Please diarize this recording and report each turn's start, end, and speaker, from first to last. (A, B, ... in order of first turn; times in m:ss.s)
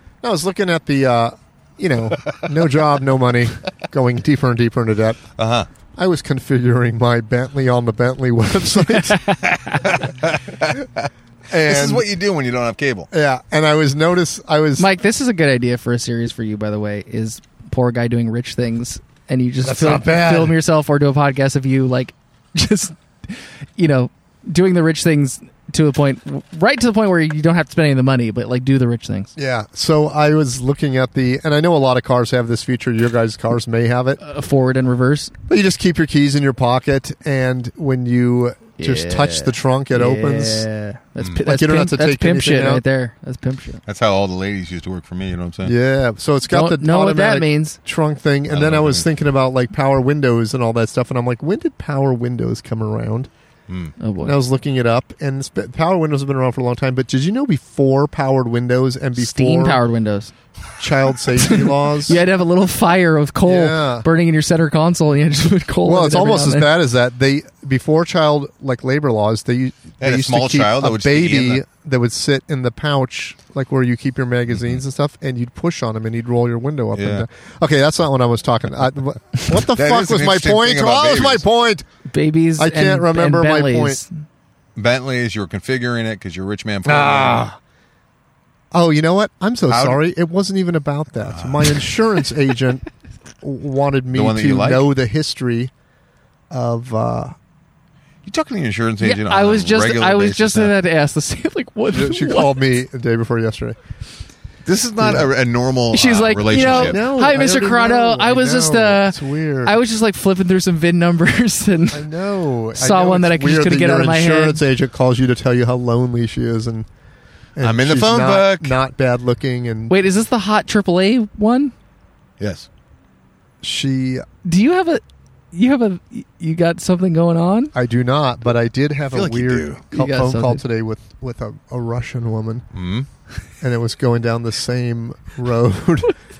0:00.2-0:05.2 A
0:05.4-0:05.7 B
0:06.0-0:09.2 A
0:09.4-0:11.1 B
0:11.5-0:12.0 A
0:11.7-0:13.1 B
0:13.1-0:14.9 A
0:14.8-0:29.3 C
0:19.6-0:20.5 A
0:29.4-0:34.2 A
0:34.2-0:35.3 C
0:35.5-0:40.7 A
0:38.8-0:43.8 C
0:41.4-0:42.8 A
0:43.8-0:45.7 B
0:45.6-0:53.3 A
0:46.5-0:47.8 C
0:48.5-0:49.0 B
0:53.7-0:53.9 B
0:54.0-0:54.4 C
0:54.2-0:59.8 A
0:59.2-1:00.3 C
1:00.8-1:02.2 A
1:01.4-1:06.7 C
1:03.4-1:04.1 A
1:05.8-1:21.8 A
1:10.0-1:11.6 B
1:14.5-1:14.8 B
1:16.9-1:17.2 B
1:19.7-1:21.4 B
1:22.1-1:24.1 C
1:22.6-1:24.0 A
1:24.8-1:27.5 B
1:26.8-1:27.6 A
1:28.7-1:32.8 A
1:29.7-1:30.0 B
1:31.2-1:31.9 B
1:33.4-1:35.7 A
1:34.1-1:34.8 B
1:36.5-1:37.3 A
1:38.2-1:40.7 B
1:39.0-1:42.6 C
1:41.9-1:43.8 A
1:44.6-1:47.0 B
1:45.0-1:45.3 A
1:45.9-1:52.0 C
1:46.5-1:49.8 A
1:51.9-1:56.9 A
1:52.7-1:54.6 C
1:57.6-1:59.9 A
1:57.6-1:58.8 B
1:59.9-2:01.7 C
2:02.4-2:02.7 B
2:03.6-2:04.2 A
2:04.4-2:07.7 C
2:07.7-2:12.6 A
2:09.1-2:09.8 B
2:09.9-2:10.6 C
2:12.7-2:13.1 B
2:13.6-2:16.1 A